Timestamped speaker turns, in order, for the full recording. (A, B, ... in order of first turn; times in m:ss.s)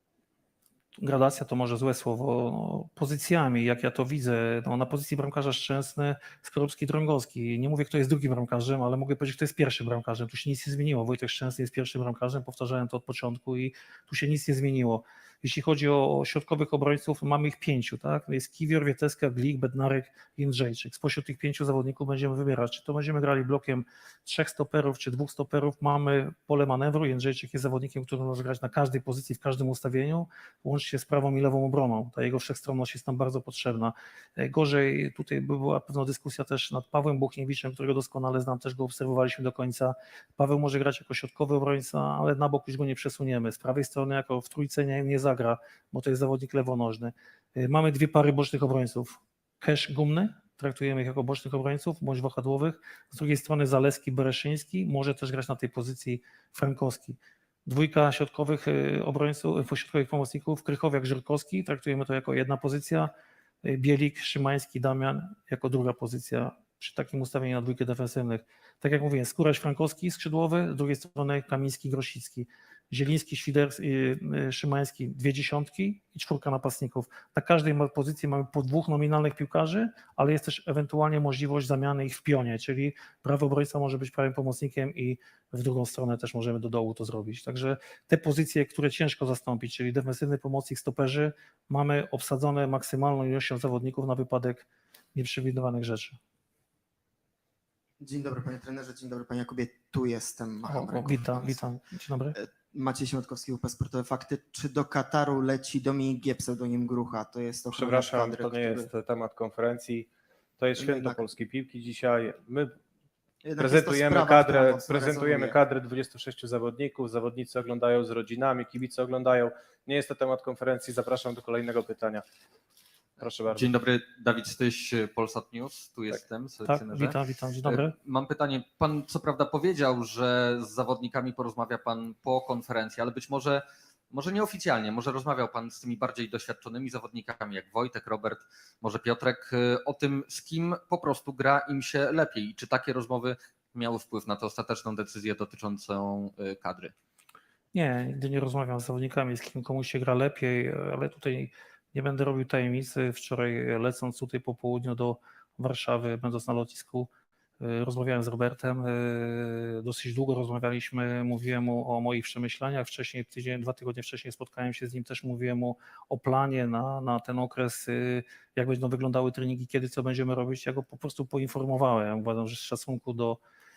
0:01.0-1:03.1 A
1:03.6-1:36.2 A
1:38.0-1:41.6 B
1:40.7-1:42.4 A
1:42.3-1:48.9 B
1:47.7-1:52.8 C
1:50.8-1:51.2 B
1:53.4-1:55.6 B
1:53.6-2:02.2 C
2:03.2-2:03.7 C
2:03.5-2:26.9 D
2:06.6-2:07.9 A
2:27.7-2:37.1 A
2:37.6-2:53.4 A